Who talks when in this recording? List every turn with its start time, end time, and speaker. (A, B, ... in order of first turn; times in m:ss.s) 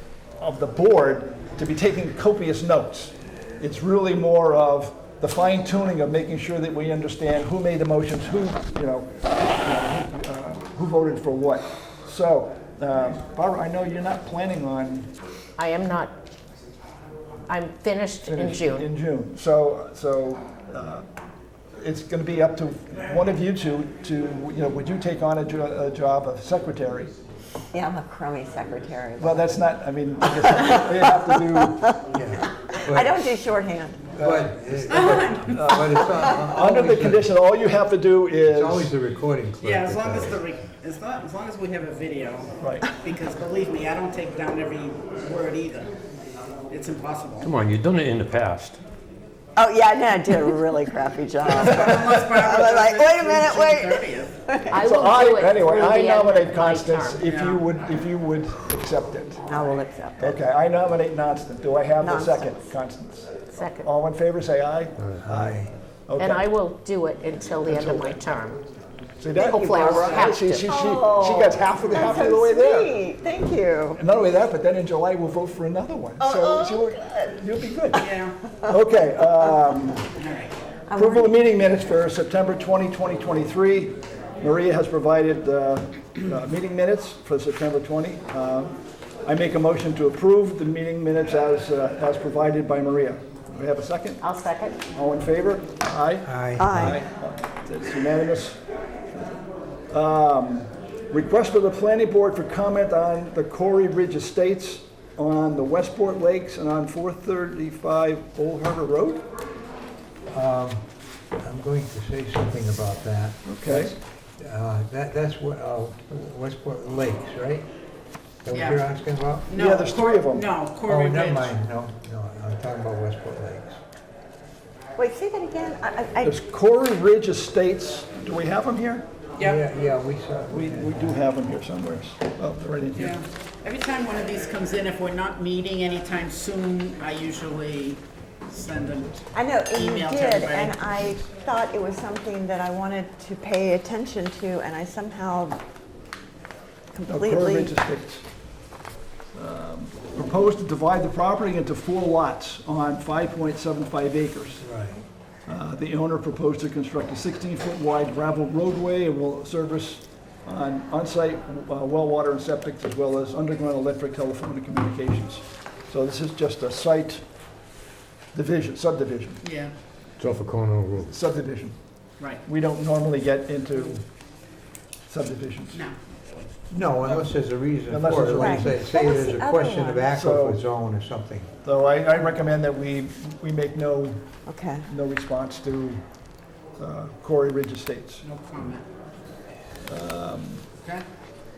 0:00.4-0:15.1 A
0:15.6-0:16.1 B
0:17.5-0:18.9 B
0:18.3-0:21.1 A
0:21.8-0:27.2 A
0:27.7-0:29.6 C
0:29.2-0:31.8 A
0:32.1-0:33.3 D
0:32.8-0:34.1 C
0:34.2-0:38.9 A
0:34.2-0:37.3 D
0:34.9-0:35.6 E
0:38.4-0:40.4 D
0:39.6-0:45.9 E
0:42.6-0:42.9 A
0:46.7-0:47.5 E
0:47.4-0:48.8 F
0:49.6-0:55.3 C
0:51.4-0:54.3 E
0:54.7-0:57.2 B
0:54.7-0:59.5 A
0:57.3-0:57.6 E
0:59.5-1:00.4 C
1:00.2-1:06.5 A
1:02.0-1:02.6 C
1:03.5-1:03.9 B
1:05.0-1:05.6 F
1:05.3-1:05.6 D
1:06.2-1:08.6 B
1:07.6-1:08.2 A
1:09.2-1:13.0 A
1:09.4-1:10.7 B
1:09.9-1:10.3 E
1:10.7-1:14.0 C
1:14.0-1:18.1 A
1:16.2-1:17.4 C
1:18.0-1:18.4 E
1:18.6-1:20.1 A
1:20.2-1:20.5 E
1:20.9-1:21.4 C
1:21.0-1:34.2 A
1:34.2-1:34.8 B
1:34.9-1:38.6 A
1:36.2-1:37.0 D
1:36.6-1:37.0 C
1:39.9-1:49.3 A
1:50.3-1:50.9 D
1:51.4-1:57.7 D
1:53.4-1:53.9 A
1:58.4-1:59.5 D
1:58.5-1:58.8 E
1:59.5-2:01.5 E
1:59.6-2:00.5 A
2:00.9-2:03.8 D
2:05.0-2:06.4 C
2:06.2-2:09.1 A
2:09.4-2:11.2 D
2:10.5-2:13.2 A
2:13.0-2:20.8 E
2:19.3-2:25.6 C
2:26.9-2:27.7 C
2:27.1-2:28.3 A
2:29.4-2:34.6 A
2:34.6-2:35.0 D
2:35.5-2:47.3 A
2:48.3-2:49.4 A
2:49.4-2:49.7 E
2:50.2-2:51.1 F
2:51.1-2:51.8 A
2:52.4-2:54.1 A
2:55.1-2:55.8 A
2:56.7-3:01.5 D
2:57.9-2:58.8 A
2:58.4-3:00.0 C
3:00.1-3:00.6 A
3:01.6-3:04.2 A
3:04.5-3:04.9 C
3:04.8-3:06.0 A
3:06.8-3:08.3 A
3:08.2-3:08.8 E
3:09.9-3:10.6 A